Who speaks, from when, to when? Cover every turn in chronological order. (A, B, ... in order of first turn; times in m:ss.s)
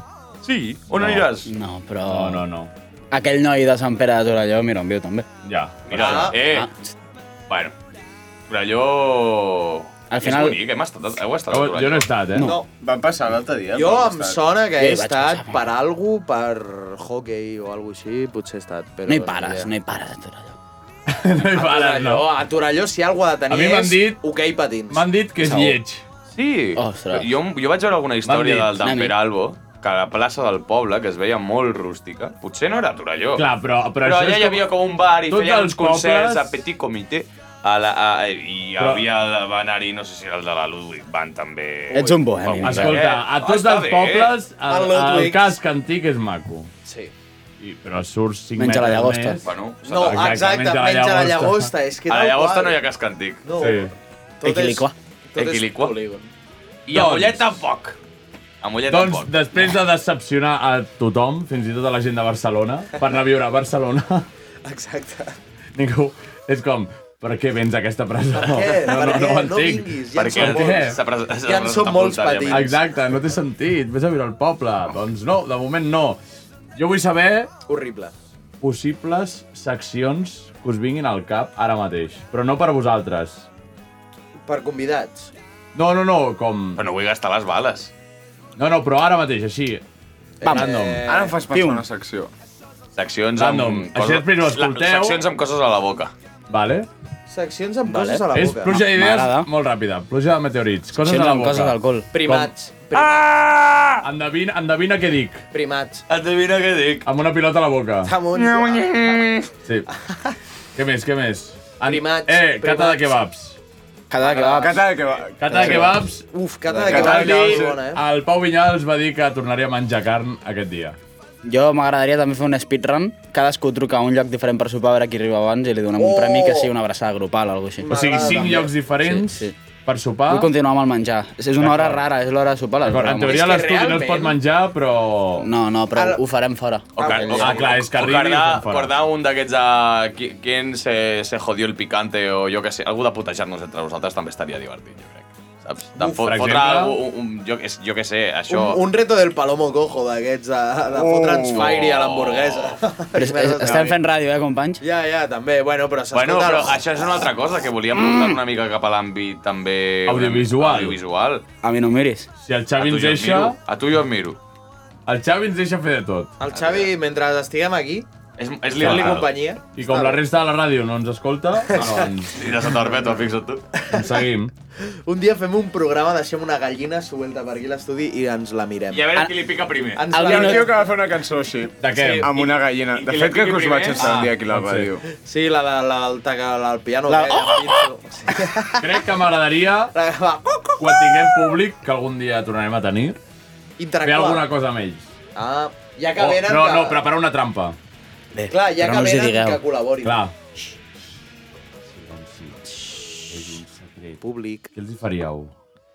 0:00.4-0:01.5 A
0:00.9-0:01.3 B
0:01.4-0:02.4 C
0:02.0-0:02.7 B
0:03.1-0:05.3 C
0:05.4-0:06.3 B
0:05.9-0:06.7 A
0:05.9-0:06.4 D
0:06.3-0:06.9 C
0:07.5-0:07.7 A
0:08.5-0:12.1 A
0:10.1-0:10.6 C
0:11.5-0:12.5 B
0:12.4-0:12.7 D
0:12.8-0:14.4 E
0:13.7-0:19.7 D
0:14.8-0:15.6 C
0:19.1-0:20.5 C
0:21.1-0:22.3 B
0:21.5-0:25.1 D
0:23.5-0:24.2 B
0:24.9-0:26.0 B
0:25.4-0:25.8 C
0:26.3-0:33.5 A
0:26.8-0:27.3 C
0:28.2-0:28.7 B
0:28.8-0:29.1 C
0:33.4-0:34.6 B
0:34.0-0:44.3 A
0:35.3-0:36.5 B
0:38.8-0:39.0 B
0:41.9-0:42.8 D
0:41.9-0:43.0 C
0:42.6-0:46.7 B
0:44.7-0:45.5 D
0:46.8-0:47.1 D
0:47.6-0:51.7 B
0:48.6-0:49.4 C
0:49.4-0:50.3 A
0:49.8-0:52.8 D
0:52.1-0:53.4 A
0:53.4-0:53.9 D
0:53.6-0:53.9 B
0:54.4-0:56.3 D
0:54.4-0:54.9 C
0:55.4-0:56.0 A
0:56.8-0:58.0 A
0:56.9-0:57.6 B
0:58.6-0:59.3 A
0:58.9-1:04.3 B
1:04.6-1:05.4 D
1:05.7-1:11.0 B
1:08.3-1:12.8 D
1:10.1-1:12.8 A
1:12.5-1:16.2 B
1:16.7-1:17.5 B
1:17.7-1:18.1 D
1:18.6-1:23.5 B
1:24.4-1:25.3 D
1:25.7-1:26.8 B
1:26.8-1:27.9 A
1:28.6-1:29.8 B
1:30.4-1:31.4 D
1:30.4-1:30.7 C
1:30.4-1:31.0 B
1:31.0-1:32.3 E
1:31.5-1:31.8 C
1:32.9-1:36.1 A
1:33.4-1:35.2 B
1:36.5-1:36.9 B
1:37.3-1:38.8 D
1:37.9-1:39.5 C
1:38.3-1:42.5 B
1:40.9-1:42.1 C
1:42.1-1:43.3 D
1:42.9-1:44.0 A
1:44.0-1:45.4 B
1:45.5-1:46.0 D
1:46.1-1:47.0 A
1:47.0-1:48.1 B
1:48.0-1:49.4 D
1:48.3-1:49.5 A
1:50.1-1:50.3 D
1:50.7-1:53.6 B
1:51.8-1:53.2 D
1:54.1-1:54.8 C
1:54.2-1:54.8 D
1:54.5-1:56.0 E
1:55.4-1:56.3 B
1:55.5-1:55.9 C
1:56.3-1:58.0 D
1:56.7-1:57.8 E
1:56.8-2:01.0 B
2:01.4-2:09.5 C
2:06.0-2:06.7 D
2:07.8-2:08.7 D
2:07.9-2:10.5 B
2:10.3-2:13.4 C
2:11.6-2:12.0 B
2:12.8-2:15.5 B
2:13.0-2:14.4 D
2:15.4-2:17.3 C
2:15.9-2:16.2 D
2:17.0-2:17.8 D
2:17.0-2:28.8 A
2:17.3-2:18.9 B
2:26.2-2:27.0 B
2:28.5-2:34.0 D
2:30.9-2:31.8 E
2:31.5-2:32.8 A
2:33.1-2:34.8 C
2:33.6-2:33.9 E
2:34.8-2:36.8 D
2:36.1-2:41.4 A
2:40.0-2:41.0 B
2:41.6-2:42.3 C
2:42.4-2:43.6 B
2:42.8-2:44.4 A
2:45.0-2:46.3 B
2:46.4-2:48.1 D
2:46.5-2:46.9 A
2:48.4-2:49.3 A
2:48.8-2:50.2 D
2:48.8-2:52.5 B
2:51.7-2:52.1 D
2:52.3-2:53.6 A
2:53.8-2:54.2 D
2:53.9-2:54.5 B
2:54.8-2:59.1 D
2:58.9-3:00.0 A
2:59.9-3:00.9 D
3:00.1-3:00.7 C
3:00.2-3:05.0 E
3:01.8-3:02.3 B
3:02.0-3:02.2 D
3:02.9-3:04.2 A
3:04.0-3:04.9 B
3:05.1-3:09.0 D
3:07.1-3:07.7 C
3:08.8-3:09.9 B
3:09.9-3:11.5 D
3:10.8-3:13.2 B
3:13.8-3:14.4 D
3:14.0-3:15.1 B
3:15.3-3:17.0 D
3:16.2-3:17.8 B
3:18.3-3:19.6 C
3:18.5-3:20.2 D
3:20.0-3:20.3 B
3:21.9-3:24.2 B
3:24.2-3:24.7 D
3:24.7-3:25.5 B